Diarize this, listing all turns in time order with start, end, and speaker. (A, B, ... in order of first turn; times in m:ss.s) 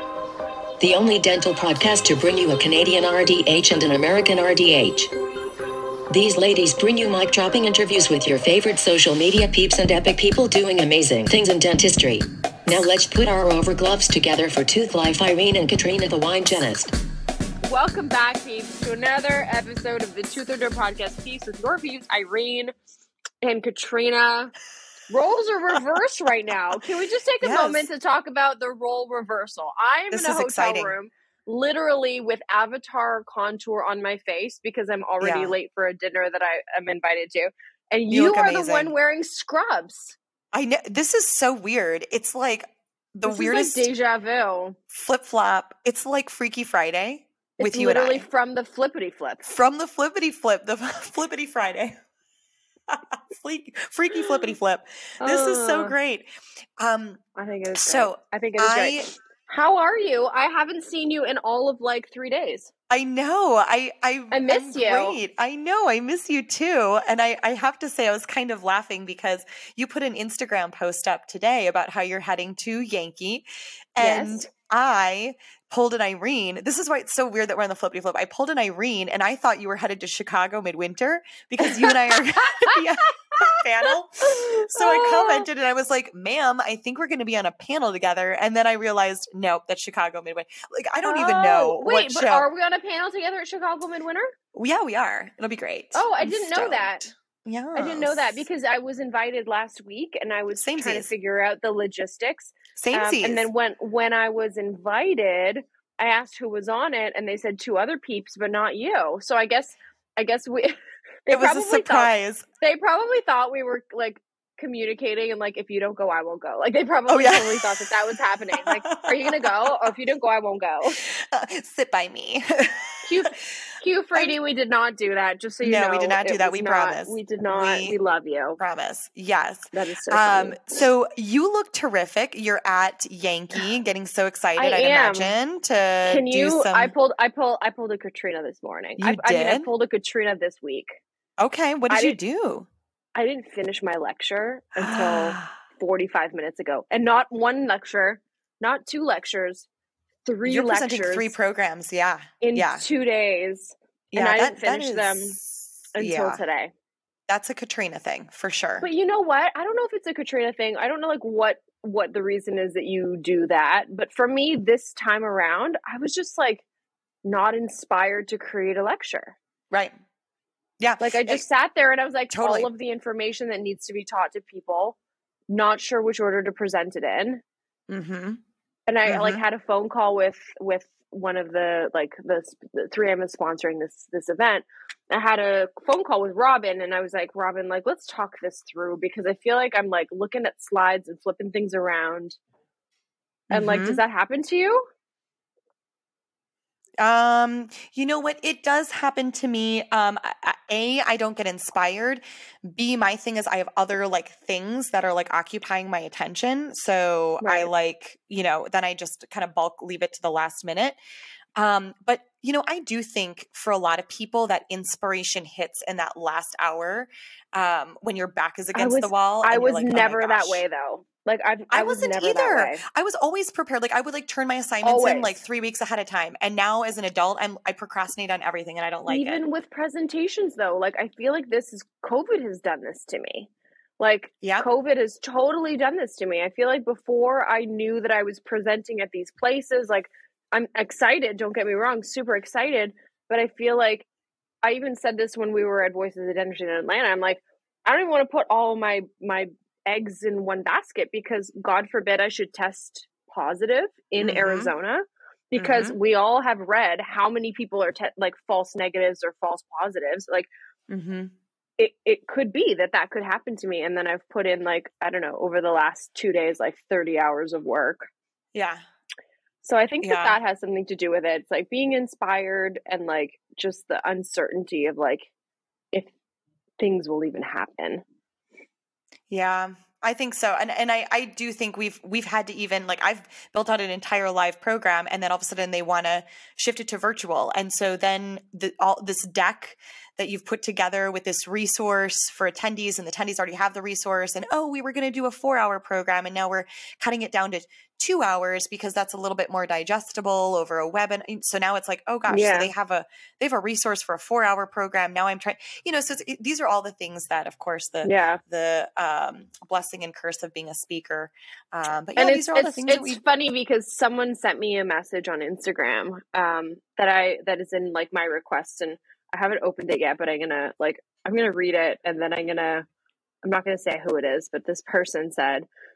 0:00.8-0:05.1 A
0:06.1-0:16.9 A
0:17.6-0:22.7 B
0:23.4-0:24.5 B
0:25.1-0:40.2 B
0:27.4-0:27.9 C
0:30.1-0:31.0 C
0:35.2-0:35.6 C
0:38.1-0:38.9 C
0:40.5-0:43.9 C
0:43.2-0:44.8 B
0:44.9-0:48.2 C
0:47.6-0:49.5 B
0:49.4-0:52.0 C
0:52.9-0:57.2 C
0:55.2-0:56.0 B
0:57.4-1:02.7 B
0:57.7-0:59.1 C
1:02.9-1:13.4 C
1:04.3-1:05.2 B
1:14.0-1:32.5 C
1:14.0-1:14.4 B
1:21.6-1:22.8 B
1:23.3-1:25.5 B
1:31.0-1:34.3 B
1:34.5-1:38.4 C
1:35.9-1:37.0 B
1:37.8-2:01.0 B
1:40.5-1:41.1 C
1:42.8-1:43.5 C
1:51.3-1:52.4 C
1:57.1-1:57.9 C
1:58.6-1:59.9 C
2:01.0-2:03.0 C
2:03.0-2:08.6 B
2:05.6-2:08.0 C
2:08.6-2:16.9 C
2:09.7-2:10.6 B
2:14.6-2:15.3 B
2:16.1-2:21.0 B
2:19.0-2:19.7 C
2:21.4-2:22.7 C
2:21.9-2:22.2 B
2:23.2-2:29.7 B
2:24.8-2:25.5 C
2:30.2-2:31.4 B
2:30.4-2:32.9 C
2:32.4-2:35.4 B
2:34.1-2:36.4 C
2:35.9-2:36.7 B
2:37.3-2:38.9 C
2:38.8-2:46.6 B
2:47.2-2:49.4 B
2:50.8-2:51.4 C
2:51.0-2:55.0 B
2:52.3-2:52.7 C
2:55.5-2:57.4 B
2:57.9-2:58.4 C
2:58.9-3:12.4 B
2:59.1-2:59.4 C
3:13.5-3:14.0 C
3:13.5-3:14.8 B
3:17.0-3:31.0 C
3:27.4-3:27.7 B
3:31.6-3:40.6 C
3:38.8-3:42.8 B
3:41.7-3:49.4 C
3:44.8-3:45.4 B
3:49.1-4:04.1 B
4:04.6-4:20.5 B
4:14.2-4:14.7 C
4:15.6-4:16.0 C
4:20.9-4:21.3 C
4:21.8-4:28.1 B
4:28.5-4:28.8 C
4:29.6-4:35.3 B
4:30.0-4:30.4 C
4:36.8-4:38.0 B
4:39.3-5:13.2 C
5:02.3-5:02.7 B
5:08.0-5:08.4 B
5:12.2-5:22.9 B
5:23.4-5:25.7 B